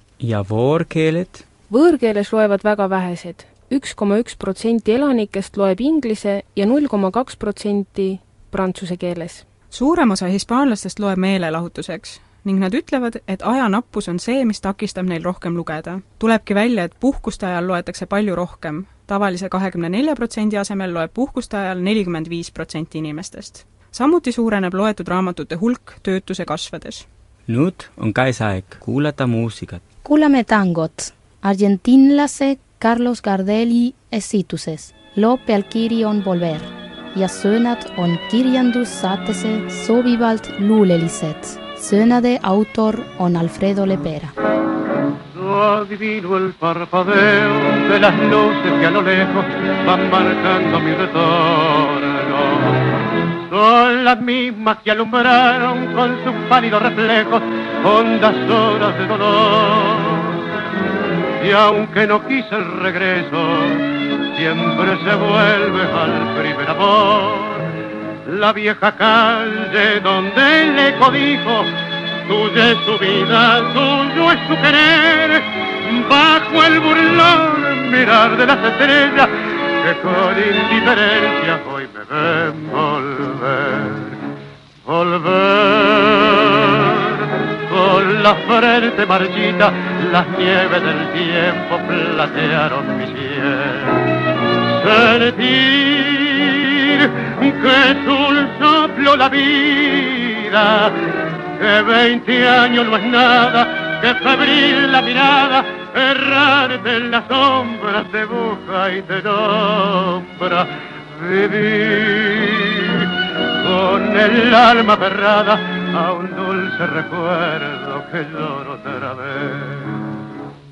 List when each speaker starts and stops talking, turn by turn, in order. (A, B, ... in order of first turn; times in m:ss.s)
0:00.2-0:01.4 A
0:01.7-0:09.4 B
0:09.7-0:27.1 C
0:27.5-0:29.8 A
0:30.0-0:44.3 D
0:45.4-0:52.8 E
0:53.5-1:00.2 E
1:01.4-1:03.8 E
1:04.4-1:07.7 E
1:08.3-1:11.7 E
1:12.3-1:24.2 E
1:24.8-1:26.8 E
1:27.7-1:34.0 E
1:34.8-1:41.0 E
1:41.6-1:53.0 E
1:53.6-2:00.0 E